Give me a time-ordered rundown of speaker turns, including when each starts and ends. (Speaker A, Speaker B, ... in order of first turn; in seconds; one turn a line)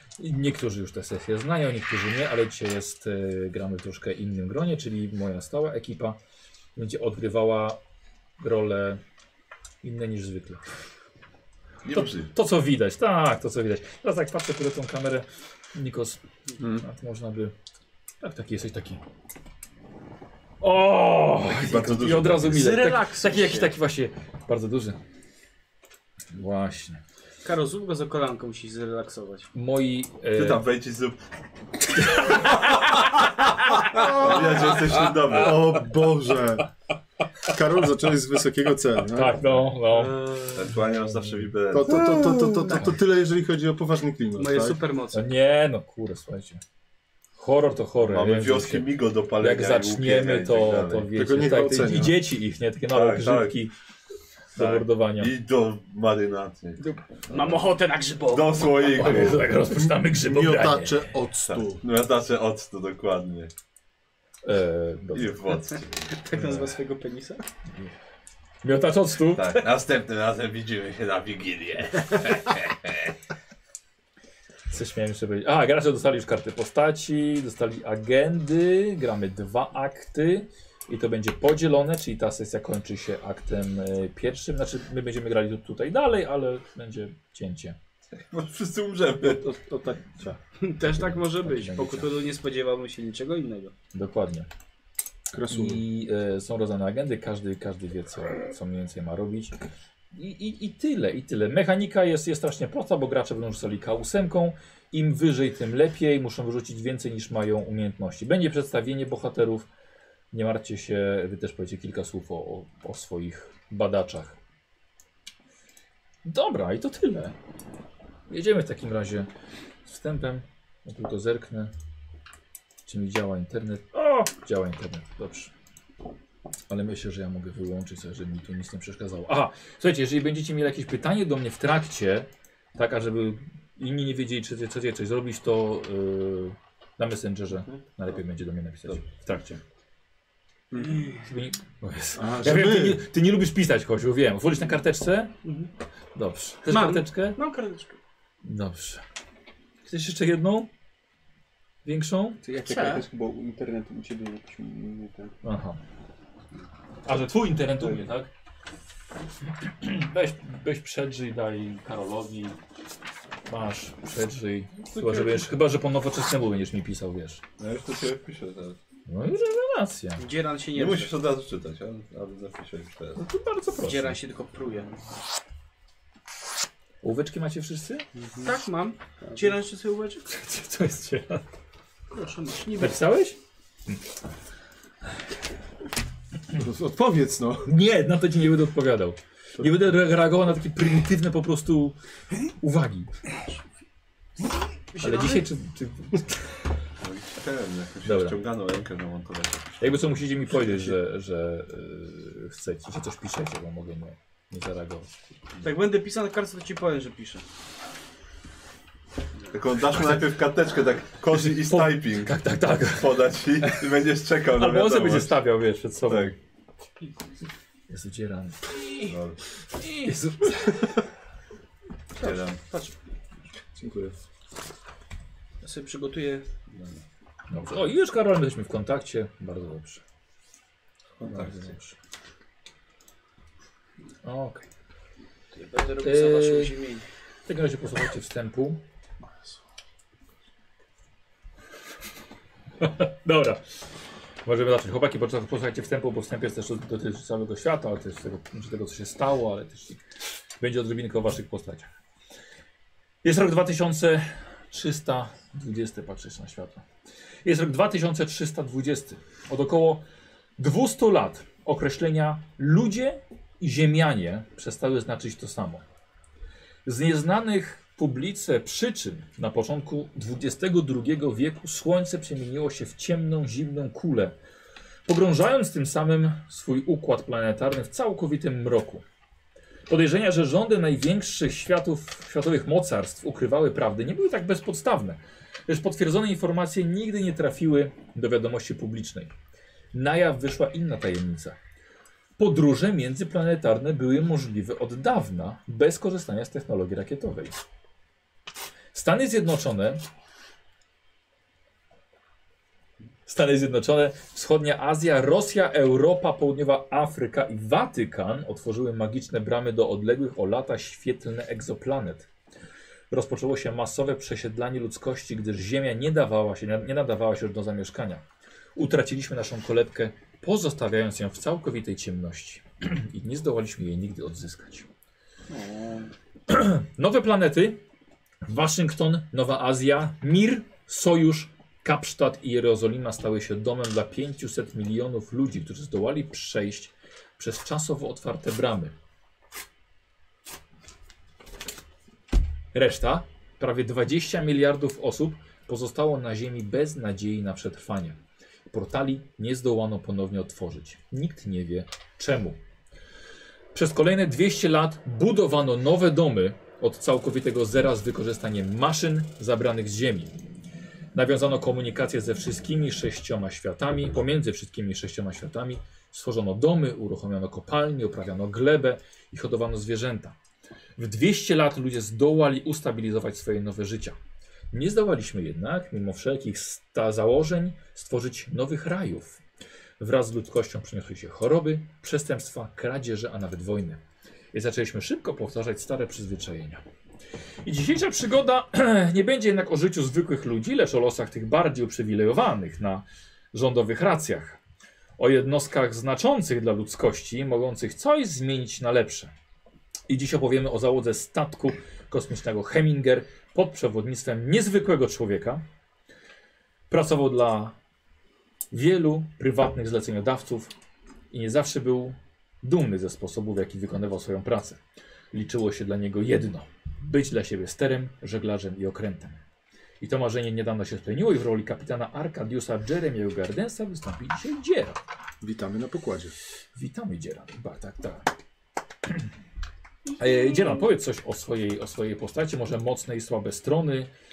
Speaker A: 0.2-6.2
Speaker A: 6.8-7.8
Speaker A: 8.4-9.0
Speaker A: 9.8-10.6
Speaker B: 11.8-12.3
Speaker A: 11.9-17.6
Speaker C: 16.6-16.9
Speaker A: 18.2-19.0
Speaker A: 20.6-25.0
Speaker B: 21.4-22.7
Speaker D: 22.5-23.7
Speaker A: 26.3-27.0
Speaker D: 27.4-29.5
Speaker A: 29.5-30.6
Speaker B: 30.4-31.2
Speaker A: 32.0-32.6
Speaker B: 32.0-35.8
Speaker E: 35.3-36.7
Speaker E: 37.5-39.4
Speaker A: 39.0-40.4
Speaker D: 39.9-40.5
Speaker B: 40.4-42.5
Speaker E: 41.7-44.8
Speaker D: 44.4-45.3
Speaker A: 45.1-46.6
Speaker A: 47.4-53.7
Speaker B: 48.0-51.1
Speaker E: 51.1-52.2
Speaker B: 52.9-53.6
Speaker A: 54.5-55.3
Speaker B: 54.6-57.7
Speaker D: 56.8-59.1
Speaker B: 58.2-59.5
Speaker A: 58.9-61.0
Speaker E: 60.0-61.8
Speaker B: 61.5-63.5
Speaker A: 64.4-65.8
Speaker B: 65.1-65.9
Speaker D: 66.0-67.5
Speaker A: 66.3-66.8
Speaker A: 68.6-69.7
Speaker B: 69.3-73.1
Speaker A: 74.7-87.8
Speaker B: 88.1-89.4
Speaker E: 89.2-90.4
Speaker D: 90.6-93.7
Speaker A: 90.8-92.1
Speaker A: 93.9-94.5
Speaker E: 95.3-95.8
Speaker A: 95.5-99.6
Speaker A: 100.1-109.7
Speaker A: 110.3-114.4
Speaker A: 116.2-117.3
Speaker A: 118.3-119.3
Speaker A: 119.8-121.7
Speaker A: 122.9-125.5
Speaker A: 126.7-139.6
Speaker D: 140.8-141.2
Speaker A: 141.2-145.3
Speaker E: 142.2-143.0
Speaker D: 145.4-145.7
Speaker A: 146.2-147.4
Speaker D: 146.7-148.0
Speaker A: 148.4-149.0
Speaker A: 149.9-150.7
Speaker A: 151.8-152.4
Speaker C: 152.4-155.4
Speaker D: 152.6-153.1
Speaker A: 155.4-155.8
Speaker A: 157.1-158.3
Speaker A: 159.6-162.6
Speaker A: 163.5-167.4
Speaker C: 165.0-165.4
Speaker B: 167.6-168.8
Speaker A: 169.1-170.2
Speaker D: 170.2-171.2
Speaker B: 170.7-173.2
Speaker A: 173.2-174.2
Speaker D: 173.8-175.0
Speaker A: 177.0-178.1
Speaker C: 178.2-178.5
Speaker D: 178.4-180.3
Speaker C: 179.2-179.6
Speaker A: 180.3-181.4
Speaker D: 182.1-183.0
Speaker A: 182.8-184.0
Speaker E: 186.5-187.7
Speaker A: 187.7-192.0
Speaker A: 192.6-193.1
Speaker D: 194.9-195.4
Speaker A: 195.0-196.8
Speaker B: 197.0-200.2
Speaker A: 198.0-198.4
Speaker A: 199.8-205.1
Speaker D: 205.6-207.4
Speaker B: 209.5-215.4
Speaker A: 211.3-213.2
Speaker A: 214.5-216.4
Speaker B: 216.1-216.3
Speaker A: 217.9-218.8
Speaker B: 219.0-219.4
Speaker A: 219.8-221.0
Speaker D: 222.2-222.9
Speaker B: 222.2-222.6
Speaker E: 223.8-224.2
Speaker D: 225.6-226.5
Speaker B: 226.7-227.0
Speaker A: 227.5-230.0
Speaker B: 231.2-231.7
Speaker A: 231.2-231.9
Speaker A: 234.2-234.7
Speaker D: 235.5-237.1
Speaker A: 236.0-236.8
Speaker A: 237.5-238.8
Speaker A: 242.8-243.7
Speaker A: 244.4-250.0
Speaker A: 250.6-251.9
Speaker A: 253.2-256.8
Speaker A: 257.4-260.1
Speaker A: 260.6-265.8
Speaker A: 266.9-274.4
Speaker A: 275.1-279.0
Speaker A: 279.9-289.3
Speaker A: 289.9-291.6
Speaker A: 292.4-297.6
Speaker A: 298.9-300.0
Speaker A: 303.3-312.3
Speaker A: 313.1-318.2
Speaker A: 318.8-324.9
Speaker C: 325.5-326.1
Speaker A: 326.5-327.8
Speaker A: 328.4-338.9
Speaker A: 342.7-352.6
Speaker A: 353.7-360.3
Speaker A: 361.1-370.4
Speaker A: 371.0-374.2
Speaker A: 374.7-379.4
Speaker A: 380.0-384.0
Speaker A: 384.5-386.8
Speaker A: 387.6-394.6
Speaker A: 395.2-399.3
Speaker A: 400.1-405.6
Speaker A: 406.9-407.8
Speaker A: 408.7-410.7
Speaker A: 411.3-414.8
Speaker A: 415.3-419.4
Speaker A: 420.0-425.0
Speaker E: 425.4-426.4
Speaker A: 426.8-428.3
Speaker A: 430.2-434.1